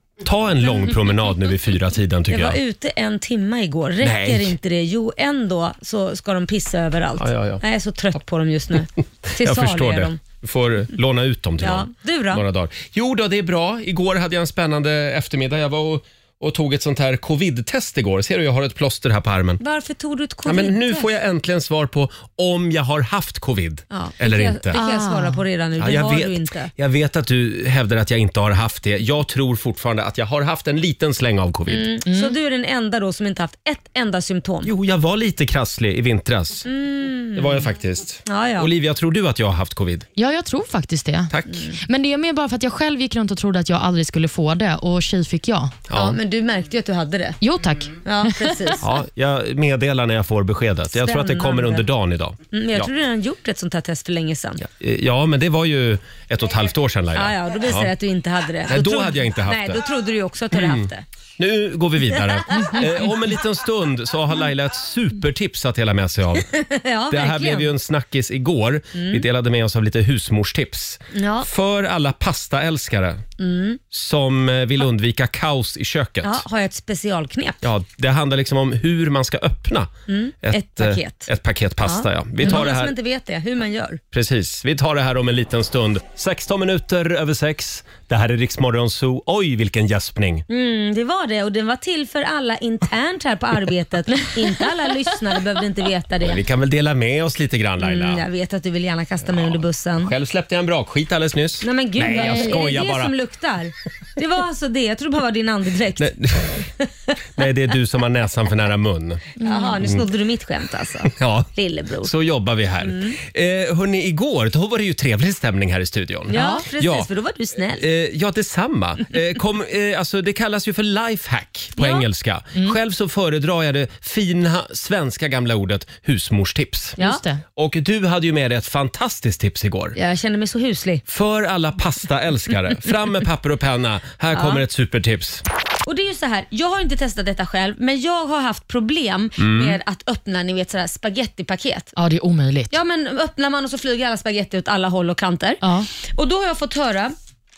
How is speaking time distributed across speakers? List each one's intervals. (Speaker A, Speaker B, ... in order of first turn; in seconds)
Speaker A: 0.2-2.6, 4.0-4.5, 7.2-7.6, 9.3-19.6, 20.4-24.8, 25.8-31.9, 34.6-36.7, 37.3-40.1, 41.3-41.6, 45.9-46.2, 48.8-52.9, 54.6-57.9, 58.7-59.9, 60.5-66.5, 67.1-73.2, 73.9-76.4, 77.6-82.9, 84.1-90.4, 96.2-98.2, 100.0-103.1, 106.0-106.6, 107.4-109.2, 111.1-111.5, 112.0-117.1, 117.8-127.0, 127.5-129.9, 131.1-135.4, 139.4-139.8
Speaker B: 2.3-10.2, 11.6-12.4, 19.6-21.1, 23.9-26.7, 31.7-34.7, 36.6-37.6, 38.3-38.7, 45.9-47.4, 48.0-48.9, 50.9-51.8, 52.5-54.6, 57.1-61.0, 62.5-62.8, 66.5-67.7, 68.9-69.2, 71.1-71.5, 73.4-73.8, 76.2-77.6, 80.1-81.3, 81.8-84.0, 90.5-96.4, 97.8-100.1, 101.6-106.9, 109.4-112.1, 112.8-113.2, 116.3-117.8, 121.8-122.0, 129.9-131.0, 134.3-134.6, 135.8-141.9, 142.7-147.1
Speaker C: 24.7-25.4, 32.0-32.3, 40.2-45.7, 47.4-48.6, 102.1-102.6, 109.4-109.8, 116.3-116.6, 127.0-127.4, 141.9-142.7, 145.6-145.9